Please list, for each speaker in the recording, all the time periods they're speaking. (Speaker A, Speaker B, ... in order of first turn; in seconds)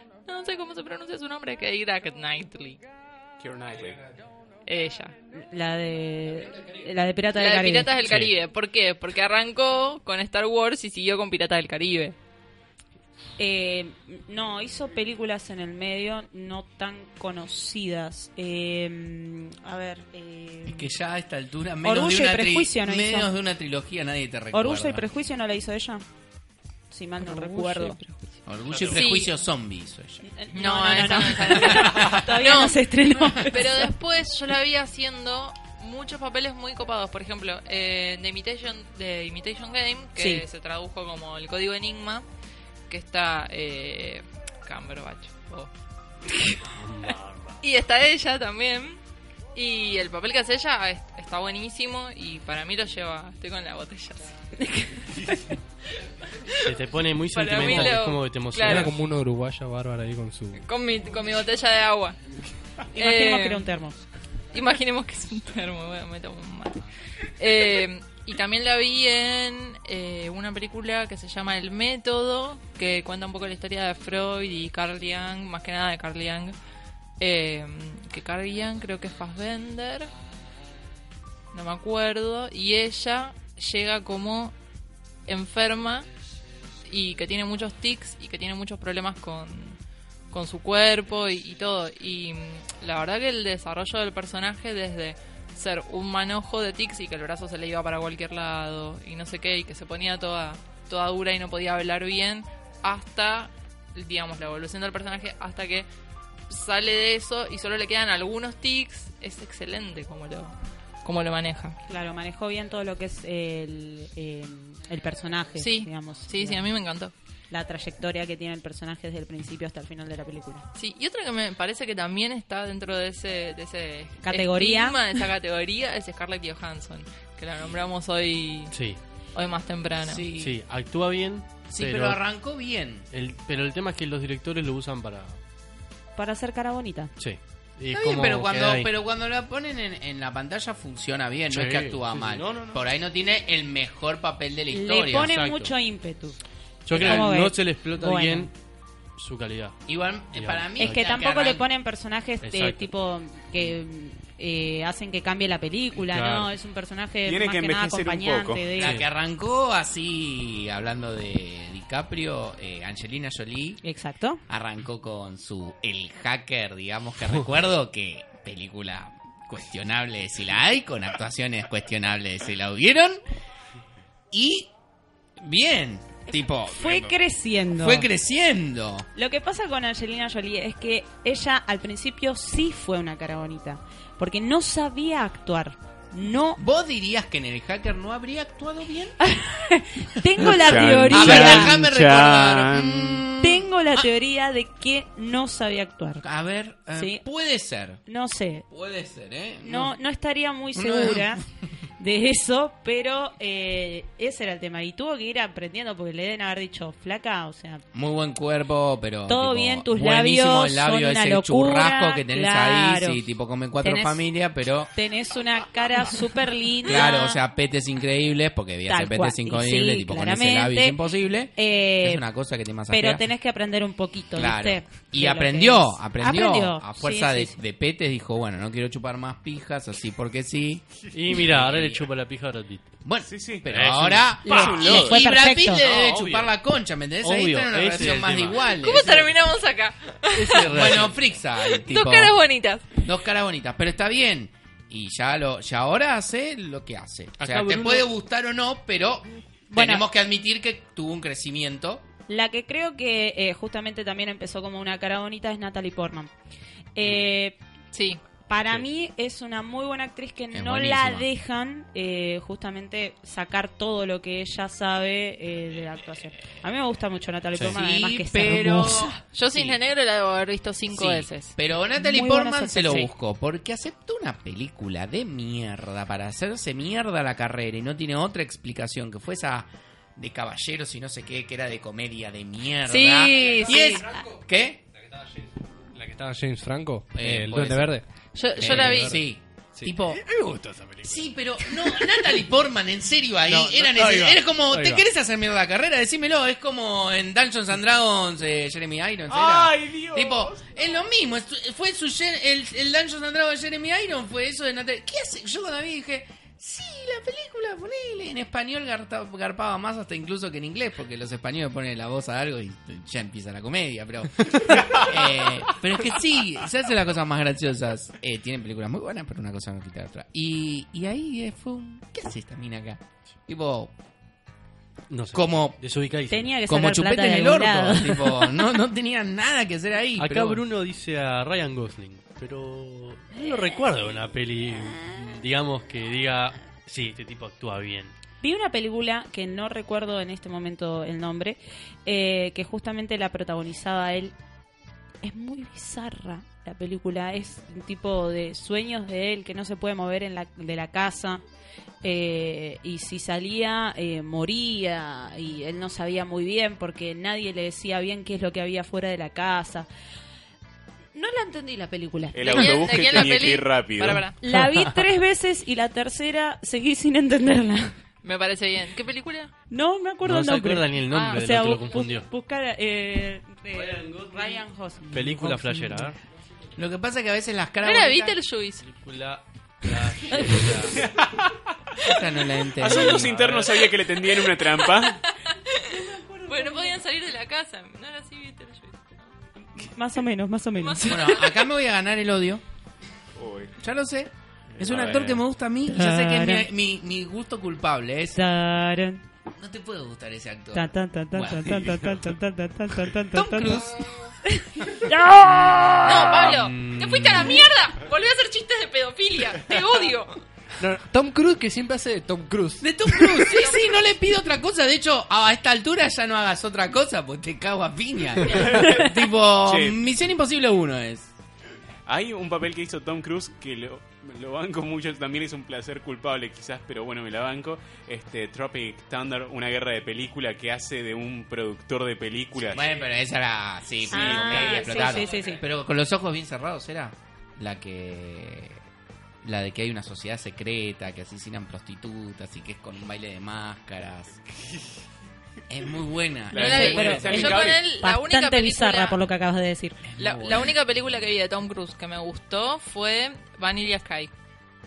Speaker A: 0.3-2.8, 4.7-5.1, 7.3-12.2, 27.2-28.1, 28.9-29.3, 30.5-32.8, 33.4-42.2, 42.9-45.7, 47.6-49.0, 49.5-54.4, 57.3-58.9, 60.6-62.2, 63.0-63.7, 64.5-66.8, 67.4-76.5, 77.2-80.1, 81.5-84.5, 85.3-86.1, 86.9-89.8, 90.3-105.9, 106.5-111.8, 115.6-117.1, 120.8-128.7, 129.3-130.3, 238.7-241.0, 241.6-242.8, 257.9-258.2, 269.3-271.5, 282.9-284.0, 288.3-289.2, 362.5-364.4, 368.2-369.5, 377.8-378.9, 384.8-385.9, 386.5-389.3, 390.8-391.6, 406.0-410.4, 413.5-413.9, 446.5-449.2, 450.2-454.3
Speaker B: 3.4-4.0, 157.3-158.8, 176.8-177.1, 190.4-193.3, 233.2-233.7, 234.5-235.4, 299.3-300.9, 362.3-364.3, 382.8-385.2, 393.4-393.8, 394.8-395.4, 418.5-419.1, 419.6-420.0, 422.1-432.9, 434.1-435.2, 446.5-447.9
Speaker C: 5.4-7.9, 13.4-20.9, 21.8-23.3, 24.5-26.0, 26.9-28.0, 30.3-33.9, 40.2-40.4, 54.6-55.4, 63.0-64.0, 111.9-116.7, 117.5-120.6, 124.2-125.0, 136.2-137.1, 144.7-146.4, 146.9-148.5, 150.8-159.0, 163.8-164.4, 176.3-178.1, 179.2-186.6, 189.2-191.8, 193.4-196.2, 196.9-197.2, 198.1-198.7, 199.6-201.4, 202.0-207.8, 209.3-213.2, 213.8-214.2, 214.9-217.4, 218.9-221.0, 221.6-222.2, 222.9-227.6, 234.4-235.8, 249.7-250.1, 252.3-256.3, 257.0-257.6, 258.5-269.2, 272.0-273.1, 326.3-328.5, 338.4-344.3, 345.2-351.4, 352.0-359.9, 361.1-362.7, 364.4-367.9, 369.7-375.6, 385.9-387.0, 389.9-391.3, 395.9-396.7, 398.4-399.2, 400.7-403.9, 404.4-406.4, 434.1-435.6, 446.6-450.0
Speaker D: 8.0-8.3, 28.7-29.0, 46.8-47.6, 56.6-58.9, 128.7-129.0, 130.4-132.2, 133.1-135.4, 137.2-138.9, 141.5-142.8, 145.1-145.7, 146.9-148.5, 149.2-149.8, 150.3-151.2, 152.4-152.9, 155.9-156.5, 231.1-232.9, 233.7-236.5, 237.2-239.3, 240.3-241.2, 247.4-248.1, 267.5-267.8, 325.1-326.6, 330.2-338.1, 370.2-372.3, 373.7-376.2, 378.8-381.1, 383.2-383.7, 406.4-407.6
Speaker E: 20.6-25.1, 28.5-32.7, 130.0-130.6, 131.7-133.1, 137.9-145.5, 146.9-147.3, 149.9-151.7, 158.8-163.8, 164.5-173.2, 174.3-174.7, 175.4-177.1, 177.8-179.1, 186.6-189.2, 191.1-194.1, 196.2-198.0, 198.7-199.9, 200.8-201.5, 207.9-214.9, 216.8-223.2, 224.3-232.1, 233.0-239.3, 240.6-242.4, 243.0-252.1, 260.5-261.3, 267.6-269.8, 270.9-284.8, 287.1-287.9, 288.6-290.2, 291.0-323.9, 325.3-325.8, 326.7-330.6, 375.2-376.1, 376.8-378.4, 380.4-380.9, 382.0-383.5, 391.1-392.6, 393.8-398.4, 399.6-402.1, 403.3-404.0, 412.8-421.3, 432.7-438.8, 439.4-444.4, 445.7-447.6, 450.1-450.8
Speaker F: 58.6-60.6, 285.9-288.0, 288.6-289.2, 289.8-292.2, 293.5-295.0, 410.8-413.5